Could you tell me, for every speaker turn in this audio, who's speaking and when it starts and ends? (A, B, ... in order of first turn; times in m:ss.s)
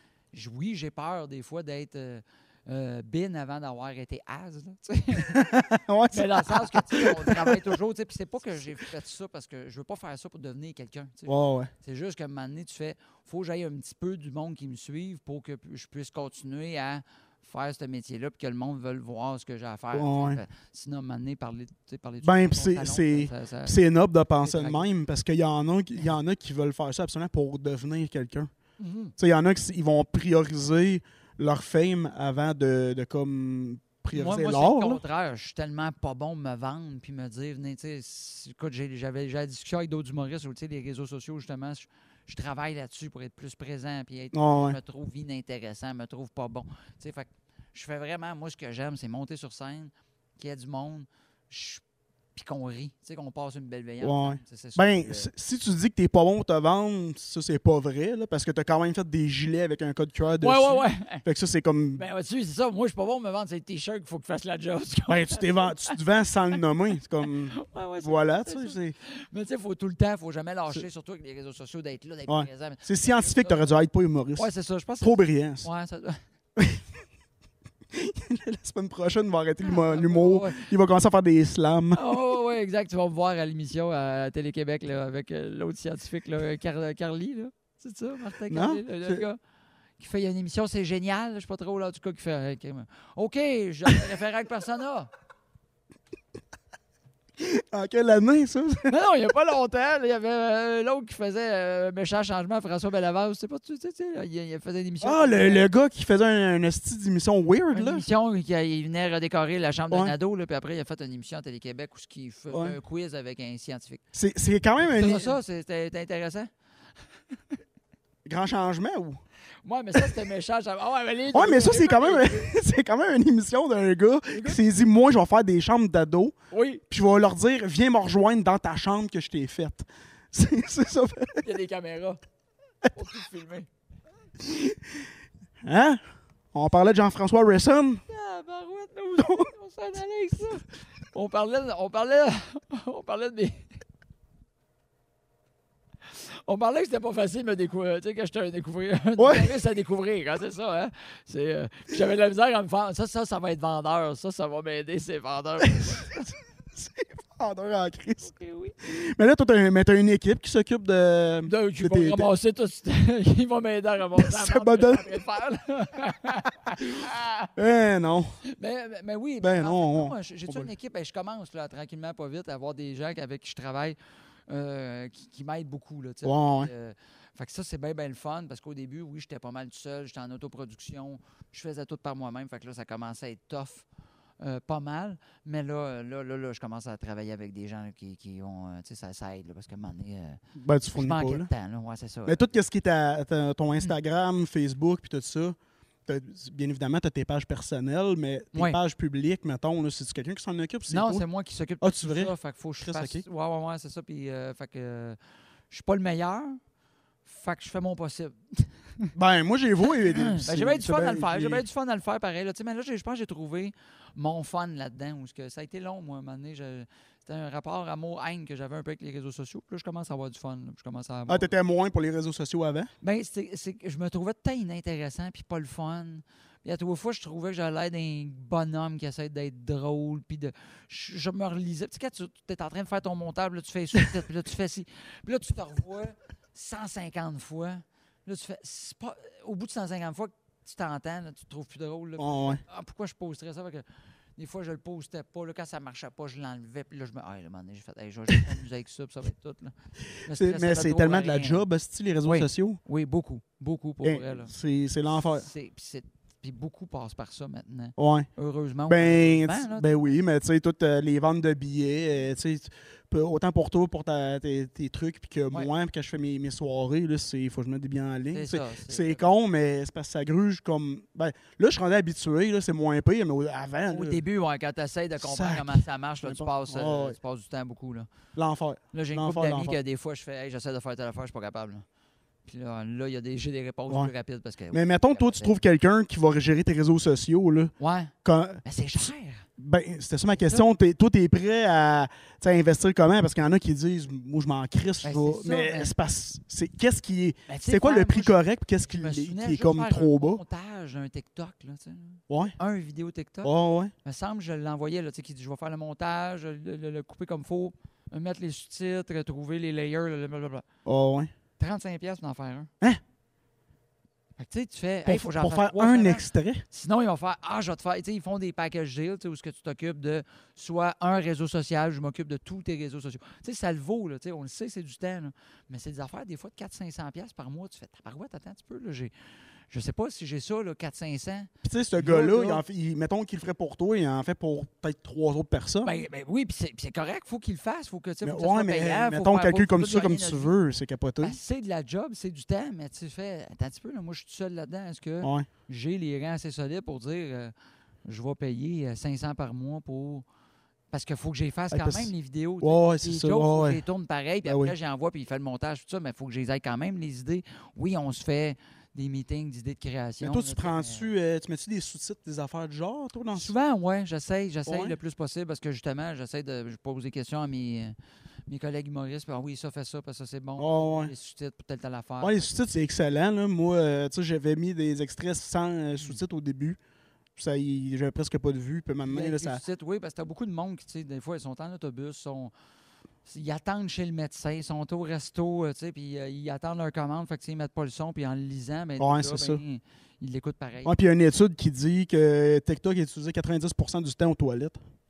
0:00.3-0:23.8 A
0:05.2-0:07.8 B
0:11.3-0:11.7 B
0:19.9-0:20.4 B
0:22.2-0:28.5 B
0:24.4-0:24.9 A
0:28.8-0:29.1 A
0:29.2-0:35.0 B
0:34.1-0:51.8 A
0:44.3-0:44.8 B
0:52.3-0:55.3 A
0:54.0-1:02.0 B
1:00.4-1:01.2 A
1:02.0-1:06.0 A
1:05.1-1:09.0 B
1:07.2-1:13.8 A
1:12.3-1:14.5 B
1:14.4-1:16.2 A
1:15.0-1:15.7 B
1:16.6-1:16.8 B
1:17.9-1:22.2 B
1:19.6-1:20.7 A
1:21.9-1:29.4 A
1:28.5-1:29.2 B
1:30.0-1:35.1 A
1:37.4-1:39.0 B
1:38.9-1:45.7 A
1:45.0-1:48.0 B
1:47.7-1:54.0 A
1:52.5-1:52.8 B
1:54.1-1:55.4 B
1:54.8-1:56.5 A
1:58.2-1:59.2 B
1:59.6-2:02.5 A
2:01.3-2:06.4 B
2:04.3-2:04.6 A
2:06.5-2:06.8 A
2:06.9-2:11.5 B
2:11.4-2:12.2 A
2:12.9-2:13.7 A
2:14.4-2:15.0 B
2:15.6-2:16.0 B
2:16.5-2:18.0 B
2:18.1-2:23.8 A
2:19.2-2:19.5 B
2:26.0-2:36.3 A
2:29.2-2:29.6 B
2:35.8-2:36.1 B
2:36.8-2:42.3 B
2:38.2-2:38.8 A
2:41.5-2:47.5 A
2:44.2-2:45.0 B
2:47.6-2:48.4 B
2:48.5-3:03.9 A
2:49.4-2:50.7 B
2:56.2-2:56.7 B
3:04.4-3:10.4 A
3:10.6-3:11.5 B
3:10.9-3:12.4 A
3:12.2-3:21.2 B
3:18.5-3:18.8 A
3:20.9-3:25.2 A
3:21.8-3:23.2 B
3:25.7-3:26.6 A
3:27.2-3:29.1 A
3:29.1-3:31.6 B
3:29.9-3:41.5 A
3:41.3-3:42.9 B
3:43.0-4:09.7 A
4:02.2-4:02.6 B
4:10.2-4:11.6 A
4:10.3-4:12.8 B
4:12.2-4:14.5 A
4:14.0-4:15.5 B
4:15.2-4:20.0 A
4:18.0-4:18.3 B
4:18.9-4:34.2 B
4:28.3-4:29.2 A
4:33.9-4:38.1 A
4:35.2-4:37.2 B
4:38.4-4:39.8 B
4:38.9-4:41.8 A
4:42.4-4:45.5 A
4:44.7-4:47.7 B
4:47.8-4:49.5 A
4:48.2-4:49.1 B
4:49.6-5:00.4 B
4:50.4-4:50.7 A
4:55.0-4:55.9 A
4:57.5-5:03.5 A
5:02.3-5:02.6 B
5:03.4-5:03.9 B
5:04.0-5:10.6 A
5:10.9-5:11.3 B
5:11.6-5:12.7 A
5:14.4-5:29.1 A
5:15.0-5:16.6 B
5:29.7-5:32.6 A
5:31.6-5:35.9 B
5:35.8-5:40.5 A
5:38.2-5:41.4 B
5:41.2-5:47.5 A
5:45.2-5:45.5 B
5:48.0-5:50.2 A
5:50.9-6:01.1 A
5:51.7-5:53.8 B
5:54.5-5:54.7 B
6:00.2-6:03.5 B
6:03.3-6:08.0 A
6:04.7-6:05.0 B
6:08.5-6:12.5 A
6:10.6-6:11.1 B
6:12.2-6:16.8 B
6:17.4-6:19.6 B
6:19.0-6:22.5 A
6:23.2-6:30.9 A
6:29.0-6:29.6 B
6:30.8-6:34.8 B